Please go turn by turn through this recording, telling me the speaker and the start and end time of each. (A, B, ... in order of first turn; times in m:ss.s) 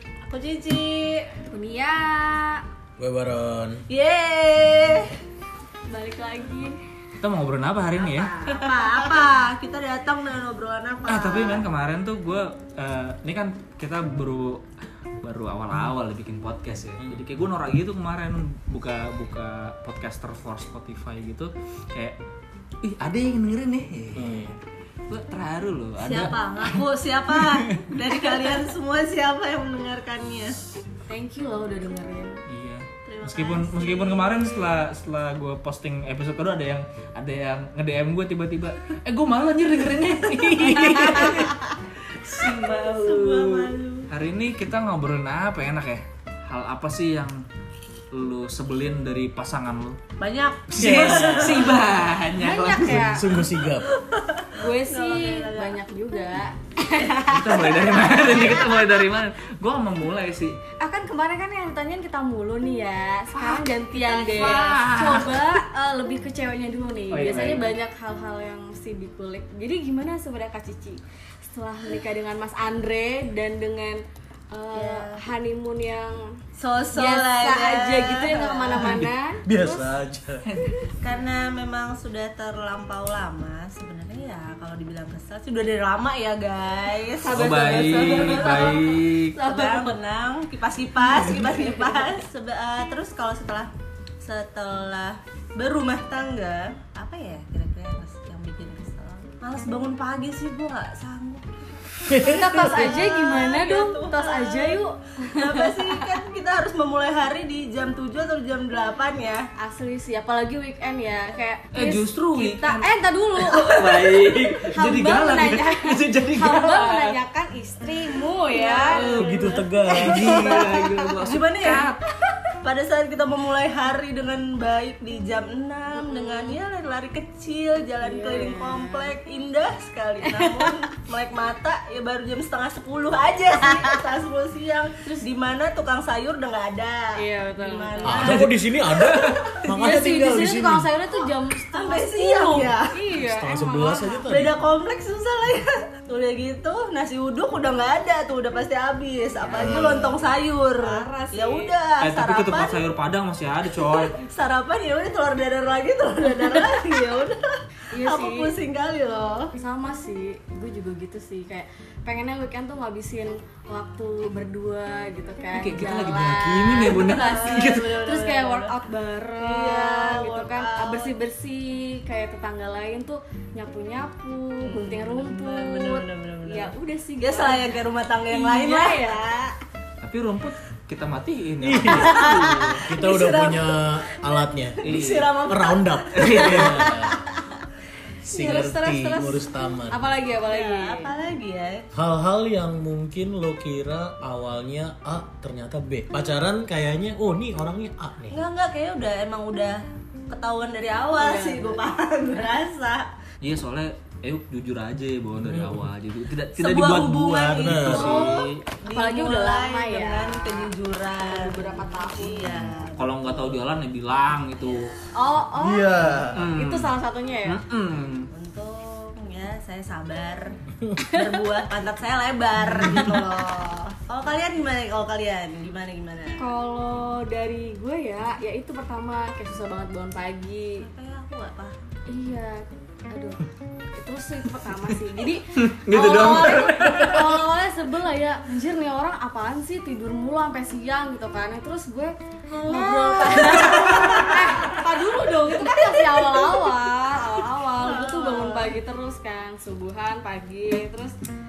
0:00.2-0:01.3 A
0:01.5-0:02.6 B
0:03.0-0:03.8 C
0:03.9-0:05.1 A
0:05.9-0:06.8 B
0:07.2-0:08.3 D
0:08.0-0:11.7 A
0:08.5-0:09.1 B
0:11.1-0:14.6 D
0:15.2-0:22.2 D
0:22.8-0:24.6 D
0:24.2-0:24.5 C
0:25.1-0:28.1 D
0:26.0-0:30.6 A
0:31.1-0:32.4 B
0:32.5-0:41.6 D
0:33.0-0:34.9 A
0:40.8-0:41.6 A
0:42.2-0:47.4 D
0:42.8-0:44.1 A
0:48.1-0:50.0 D
0:50.2-0:51.8 A
0:50.8-0:53.2 D
0:50.8-0:51.8 C
0:52.4-0:53.4 B
0:52.8-0:53.9 C
0:53.6-0:55.8 A
0:54.5-0:58.3 B
0:57.3-1:00.6 D
0:58.0-0:58.6 A
1:00.8-1:16.3 B
1:03.4-1:05.5 A
1:04.3-1:05.4 D
1:07.1-1:07.8 D
1:14.7-1:15.2 A
1:16.6-1:19.0 A
1:16.9-1:19.9 B
1:18.8-1:20.5 C
1:20.6-1:20.9 B
1:21.0-1:44.8 A
1:27.2-1:29.6 D
1:28.3-1:28.7 B
1:29.5-1:29.9 B
1:42.1-1:42.4 C
1:42.1-1:46.2 B
1:45.3-1:49.5 A
1:49.6-1:59.1 B
1:51.7-1:52.8 D
1:53.4-1:57.2 D
1:58.5-2:02.0 A
1:58.9-2:02.0 D
1:59.1-2:00.5 C
2:02.6-2:19.7 A
2:06.0-2:06.6 B
2:08.0-2:09.1 B
2:10.2-2:10.8 B
2:17.2-2:18.4 B
2:18.0-2:20.9 C
2:19.7-2:24.2 B
2:21.7-2:23.0 A
2:23.2-2:24.6 C
2:24.3-2:32.8 A
2:29.5-2:30.2 C
2:29.5-2:29.8 B
2:30.8-2:31.8 B
2:32.0-2:34.1 D
2:33.7-2:39.5 A
2:37.9-2:38.5 B
2:39.6-2:59.2 B
2:45.6-2:48.0 D
2:46.8-2:48.8 A
2:49.4-2:51.1 A
2:54.7-2:59.5 A
3:00.0-3:02.8 D
3:01.6-3:04.8 C
3:01.9-3:07.2 A
3:04.8-3:05.3 D
3:05.5-3:07.2 C
3:06.1-3:07.0 D
3:08.2-3:10.1 C
3:08.3-3:11.1 B
3:10.4-3:11.9 A
3:12.0-3:18.4 C
3:18.3-3:23.1 A
3:21.1-3:21.9 B
3:23.4-3:28.6 D
3:25.4-3:25.9 C
3:26.6-3:33.6 A
3:27.6-3:28.2 C
3:28.9-3:32.4 B
3:32.4-3:32.7 C
3:33.0-3:34.9 D
3:34.6-3:34.9 A
3:35.1-3:37.6 B
3:35.6-3:36.5 C
3:36.3-3:36.9 D
3:37.4-3:38.3 D
3:38.3-3:46.4 A
3:41.1-3:41.5 B
3:42.7-3:43.1 C
3:46.4-3:50.9 B
3:50.8-3:51.8 A
3:52.1-3:53.4 B
3:54.0-4:11.2 B
3:55.6-3:57.4 D
4:02.5-4:08.8 A